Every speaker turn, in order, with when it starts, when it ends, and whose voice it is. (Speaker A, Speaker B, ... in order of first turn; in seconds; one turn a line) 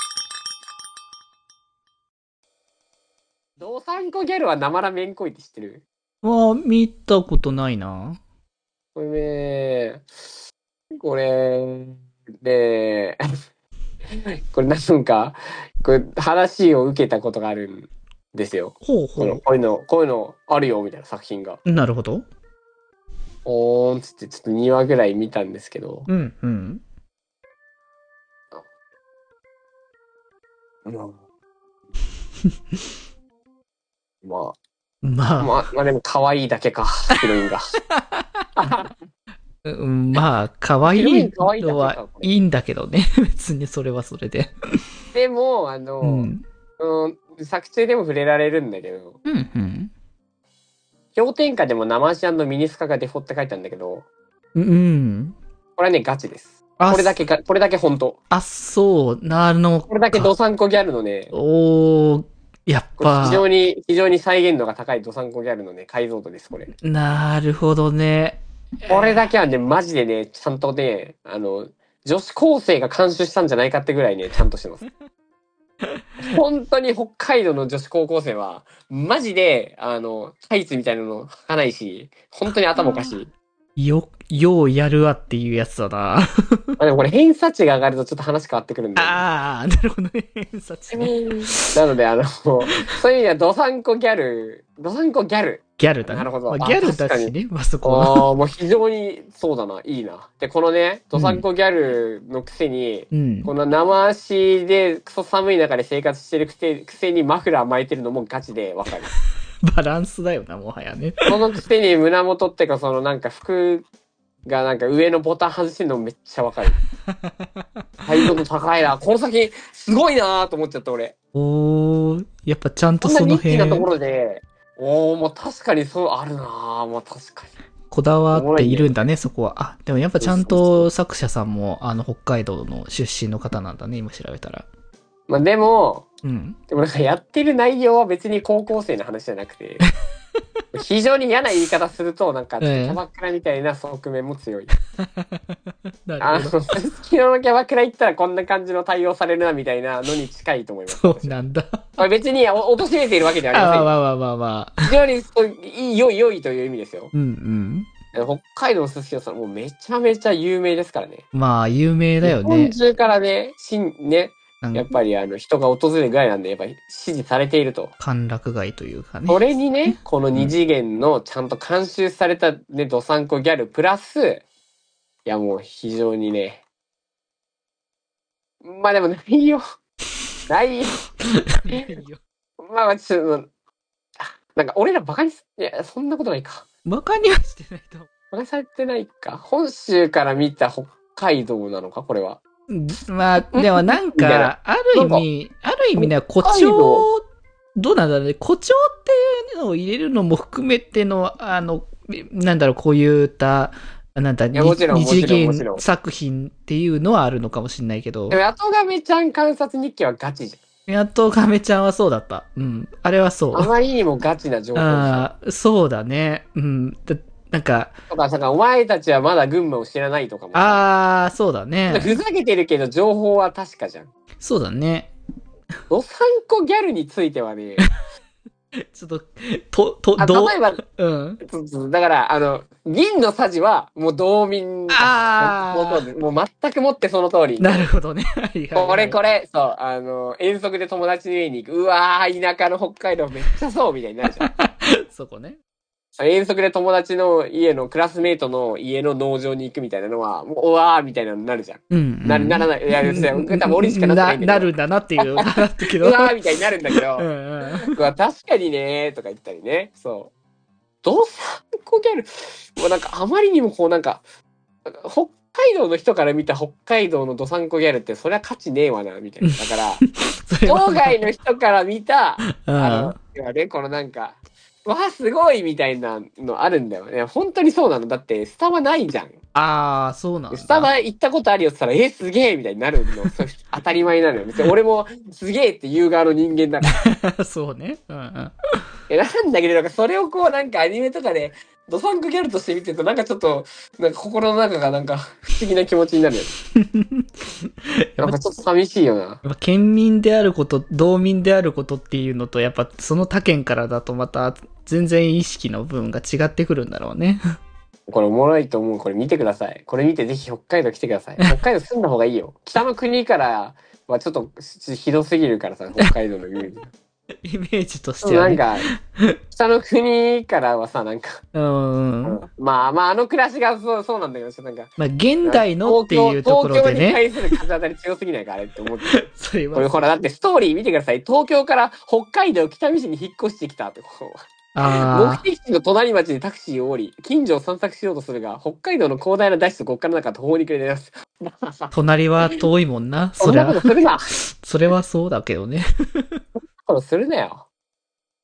Speaker A: 3.6-5.8
Speaker B: 6.2-8.2
Speaker A: 8.9-10.1
Speaker A: 10.9-13.2
Speaker A: 14.1-21.6
Speaker B: 18.8-19.4
Speaker B: 21.6-22.2
Speaker A: 23.5-26.1
Speaker B: 26.1-26.8
Speaker A: 30.9-31.2
Speaker A: 34.2-34.6
Speaker B: 35.0-35.5
Speaker A: 35.4-37.6
Speaker B: 37.9-38.2
Speaker A: 38.6-38.9
Speaker B: 39.6-44.8
Speaker A: 40.9-42.3
Speaker A: 45.1-49.2
Speaker B: 46.0-46.4
Speaker B: 49.2-49.9
Speaker A: 51.2-54.0
Speaker B: 54.5-55.4
Speaker A: 55.8-58.2
Speaker B: 56.8-57.2
Speaker B: 58.3-60.3
Speaker A: 59.9-61.3
Speaker B: 61.3-63.5
Speaker A: 63.0-66.7
Speaker B: 66.8-69.2
Speaker A: 68.9-74.8
Speaker B: 75.8-76.3
Speaker A: 76.2-83.3
Speaker B: 82.8-83.2
Speaker B: 83.8-86.8
Speaker A: 86.8-89.2
Speaker B: 89.0-91.8
Speaker A: 90.9-109.1
Speaker B: 92.6-92.9
Speaker B: 95.8-98.3
Speaker B: 101.1-101.5
Speaker B: 103.1-103.5
Speaker B: 109.1-111.4
Speaker A: 111.3-113.9
Speaker A: 114.5-116.8
Speaker B: 117.1-118.0
Speaker A: 118.0-121.2
Speaker B: 121.3-123.9
Speaker A: 123.0-127.5
Speaker B: 127.9-134.7
Speaker A: 128.3-129.1
Speaker A: 130.2-130.9
Speaker A: 135.3-136.1
Speaker B: 136.2-136.6
Speaker A: 136.7-139.8
Speaker A: 140.7-144.7
Speaker B: 142.6-143.0
Speaker B: 145.0-146.6
Speaker A: 146.2-151.4
Speaker B: 150.9-152.0
Speaker A: 152.0-153.9
Speaker B: 153.5-154.9
Speaker A: 154.8-157.1
Speaker B: 157.1-157.9
Speaker A: 158.1-161.2
Speaker B: 161.3-162.8
Speaker A: 162.2-167.9
Speaker B: 164.6-165.0
Speaker B: 168.0-170.5
Speaker A: 169.3-174.4
Speaker A: 175.2-176.6
Speaker A: 178.6-179.6
Speaker A: 180.5-181.0
Speaker B: 181.3-182.2
Speaker A: 182.6-183.5
Speaker A: 184.2-186.7
Speaker B: 186.8-188.1
Speaker A: 188.3-192.4
Speaker B: 192.7-197.2
Speaker A: 193.5-195.2
Speaker A: 196.0-197.1
Speaker B: 197.8-208.4
Speaker A: 204.5-205.8
Speaker A: 208.3-210.6
Speaker B: 210.9-213.7
Speaker A: 213.5-215.3
Speaker B: 214.8-217.9
Speaker A: 218.1-220.8
Speaker B: 220.5-222.2
Speaker A: 221.9-224.1
Speaker B: 224.4-225.1
Speaker A: 225.9-227.9
Speaker B: 228.9-231.4
Speaker A: 230.2-230.8
Speaker A: 231.4-237.9
Speaker B: 234.9-236.1
Speaker B: 237.6-239.2
Speaker A: 238.8-244.5
Speaker B: 244.3-245.6
Speaker A: 246.2-254.7
Speaker B: 251.9-256.4
Speaker A: 255.2-260.3
Speaker B: 257.0-257.9
Speaker A: 261.0-264.2
Speaker A: 264.9-270.0
Speaker B: 269.4-271.2
Speaker A: 270.6-279.4
Speaker B: 272.6-273.1
Speaker B: 279.5-280.9
Speaker A: 280.5-287.0
Speaker B: 286.8-288.6
Speaker A: 289.1-296.5
Speaker B: 296.8-298.4
Speaker A: 298.2-299.4
Speaker B: 299.4-307.4
Speaker A: 308.1-316.9
Speaker B: 317.4-319.3
Speaker A: 318.2-318.9
Speaker A: 319.5-321.4
Speaker B: 321.5-322.4
Speaker A: 322.2-324.9
Speaker B: 325.0-327.3
Speaker A: 325.4-329.1
Speaker B: 329.0-329.9
Speaker A: 329.7-342.6
Speaker B: 334.7-335.5
Speaker B: 341.9-344.1
Speaker A: 343.4-344.2
Speaker B: 344.6-346.4
Speaker A: 346.9-347.7